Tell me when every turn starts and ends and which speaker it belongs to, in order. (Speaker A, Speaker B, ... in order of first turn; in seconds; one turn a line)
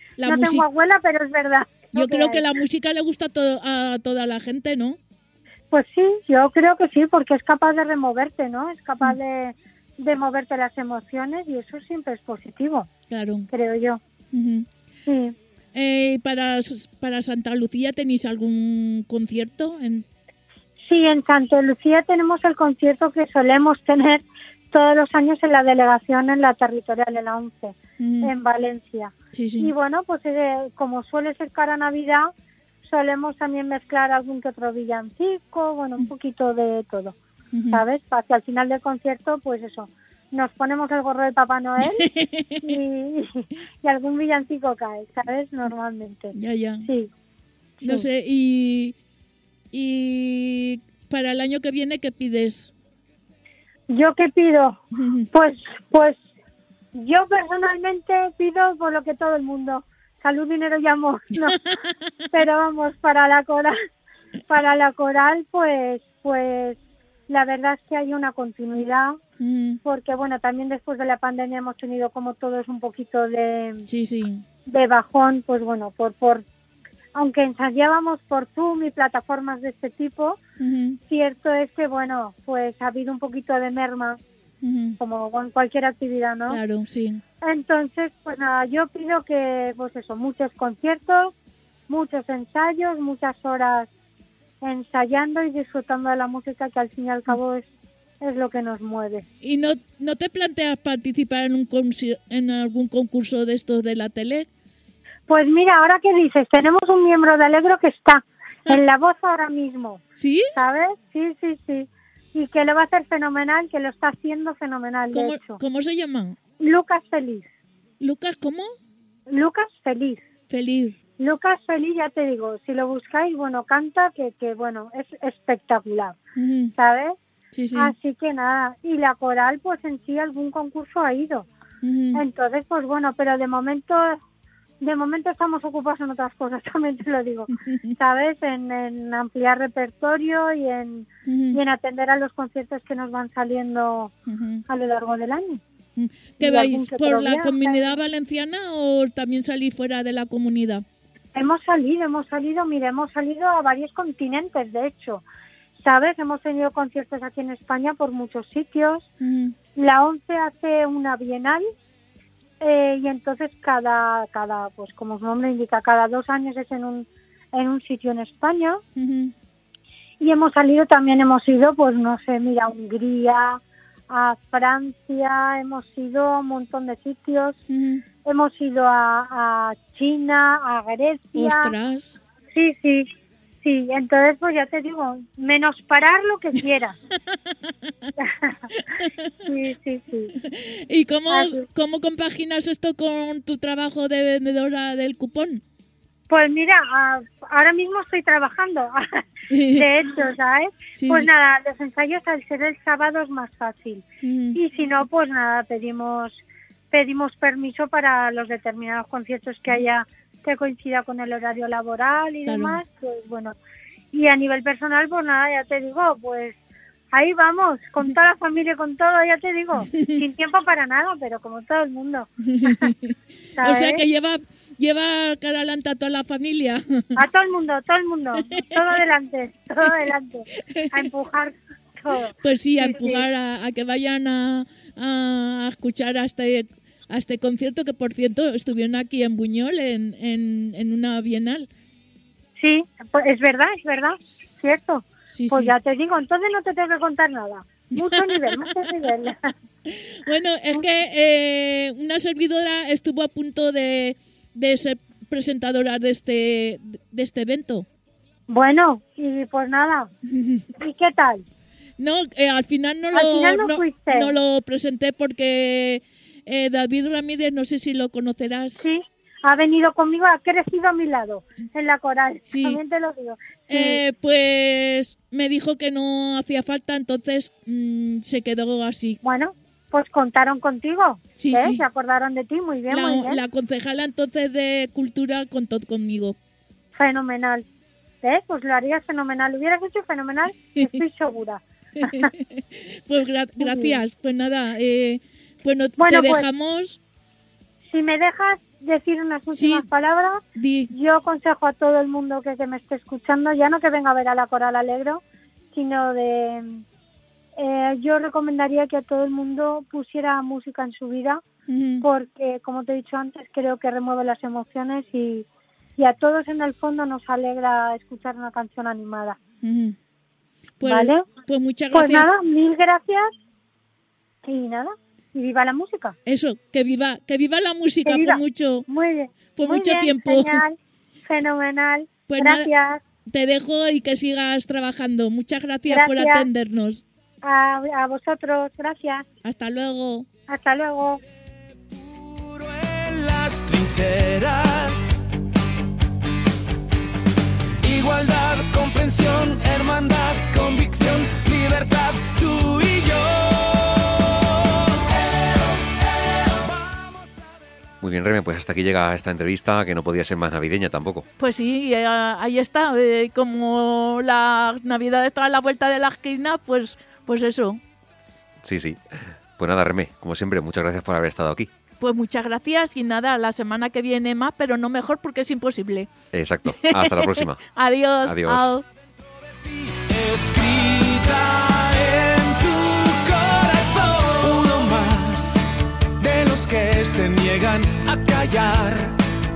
Speaker A: 0.2-0.6
Speaker B: 0.2-2.5
Speaker A: 1.9-5.0
Speaker B: 5.7-12.9
Speaker A: 13.1-13.5
Speaker B: 13.5-14.0
Speaker A: 14.3-14.7
Speaker B: 15.1-15.3
Speaker A: 15.7-20.0
Speaker B: 20.8-32.3
Speaker A: 28.0-28.3
Speaker A: 29.3-29.7
Speaker B: 32.8-37.1
Speaker A: 37.5-37.8
Speaker B: 37.7-42.0
Speaker A: 41.9-42.8
Speaker B: 42.6-47.1
Speaker A: 46.3-46.9
Speaker B: 47.8-48.0
Speaker A: 47.8-48.9
Speaker A: 49.7-52.7
Speaker B: 53.9-54.8
Speaker A: 54.9-55.3
Speaker B: 55.3-56.2
Speaker B: 56.9-61.6
Speaker A: 61.5-61.7
Speaker B: 62.3-63.7
Speaker B: 64.5-69.2
Speaker A: 69.4-69.8
Speaker B: 69.8-73.8
Speaker A: 73.9-74.4
Speaker B: 74.7-76.4
Speaker B: 77.1-80.4
Speaker A: 80.6-81.0
Speaker B: 81.1-84.2
Speaker A: 84.6-85.0
Speaker B: 85.0-86.6
Speaker A: 86.5-87.2
Speaker B: 87.4-91.3
Speaker B: 91.9-93.9
Speaker B: 94.6-97.7
Speaker B: 98.2-99.2
Speaker A: 99.4-104.5
Speaker B: 105.3-110.0
Speaker A: 110.2-110.5
Speaker B: 110.5-115.6
Speaker A: 115.1-116.3
Speaker B: 116.6-117.5
Speaker A: 118.0-118.7
Speaker B: 119.3-120.2
Speaker A: 120.5-121.0
Speaker B: 121.2-126.2
Speaker A: 126.4-126.7
Speaker B: 126.7-127.2
Speaker A: 127.5-127.9
Speaker B: 127.7-131.5
Speaker A: 131.8-132.2
Speaker B: 132.1-134.2
Speaker B: 134.8-144.1
Speaker A: 137.7-137.9
Speaker A: 141.2-141.6
Speaker A: 144.3-144.6
Speaker B: 144.7-145.6
Speaker A: 145.9-150.8
Speaker B: 146.4-148.0
Speaker B: 151.3-155.2
Speaker B: 155.8-159.1
Speaker A: 159.2-159.5
Speaker B: 159.7-161.6
Speaker B: 162.6-168.8
Speaker A: 168.9-169.3
Speaker B: 170.2-177.6
Speaker A: 177.7-178.0
Speaker B: 178.2-181.7
Speaker A: 181.3-182.2
Speaker B: 182.5-183.1
Speaker B: 183.6-186.9
Speaker A: 187.3-188.1
Speaker B: 188.2-188.6
Speaker A: 188.7-189.3
Speaker B: 189.4-190.3
Speaker A: 190.4-195.6
Speaker B: 191.3-191.6
Speaker B: 196.3-199.0
Speaker A: 199.5-199.9
Speaker B: 199.7-213.6
Speaker A: 200.9-201.3
Speaker A: 204.2-204.6
Speaker A: 212.4-212.8
Speaker B: 214.1-216.6
Speaker B: 217.1-222.9
Speaker A: 219.8-220.2
Speaker A: 222.4-227.1
Speaker B: 223.6-224.0
Speaker B: 227.2-233.2
Speaker A: 228.4-228.9
Speaker A: 230.7-231.0
Speaker A: 232.4-241.7
Speaker B: 242.6-249.3
Speaker A: 245.3-245.7
Speaker A: 247.9-248.7
Speaker A: 249.8-257.9
Speaker B: 258.5-260.1
Speaker A: 260.3-260.6
Speaker B: 260.8-261.4
Speaker A: 262.0-268.8
Speaker B: 263.1-264.3
Speaker B: 268.8-274.0
Speaker A: 272.5-272.8
Speaker A: 273.7-279.2
Speaker B: 279.2-283.4
Speaker A: 281.4-281.8
Speaker A: 282.9-286.4
Speaker B: 286.9-287.6
Speaker B: 288.2-292.3
Speaker A: 292.0-297.0
Speaker B: 293.6-294.0
Speaker B: 296.0-296.5
Speaker B: 297.9-305.2
Speaker A: 299.5-299.9
Speaker A: 300.5-300.9
Speaker B: 305.7-306.8
Speaker B: 307.6-311.4
Speaker A: 311.7-312.1
Speaker B: 312.0-319.4
Speaker A: 319.6-319.9
Speaker A: 320.8-322.3
Speaker B: 320.8-321.3
Speaker B: 321.9-323.3
Speaker B: 324.4-326.1
Speaker A: 326.2-328.9
Speaker B: 328.0-333.0
Speaker A: 329.6-330.6
Speaker A: 332.3-332.7
Speaker A: 333.2-337.0
Speaker B: 335.9-336.5
Speaker B: 337.4-339.2
Speaker A: 339.4-340.2
Speaker B: 340.5-341.2
Speaker C: 341.9-345.2
Speaker C: 347.8-354.7
Speaker D: 358.0-361.2
Speaker A: 361.4-367.8
Speaker D: 368.6-369.0
Speaker D: 369.6-371.7
Speaker A: 372.0-376.1
Speaker D: 376.3-377.6
Speaker A: 376.6-378.8
Speaker D: 378.2-378.7
Speaker C: 379.9-389.2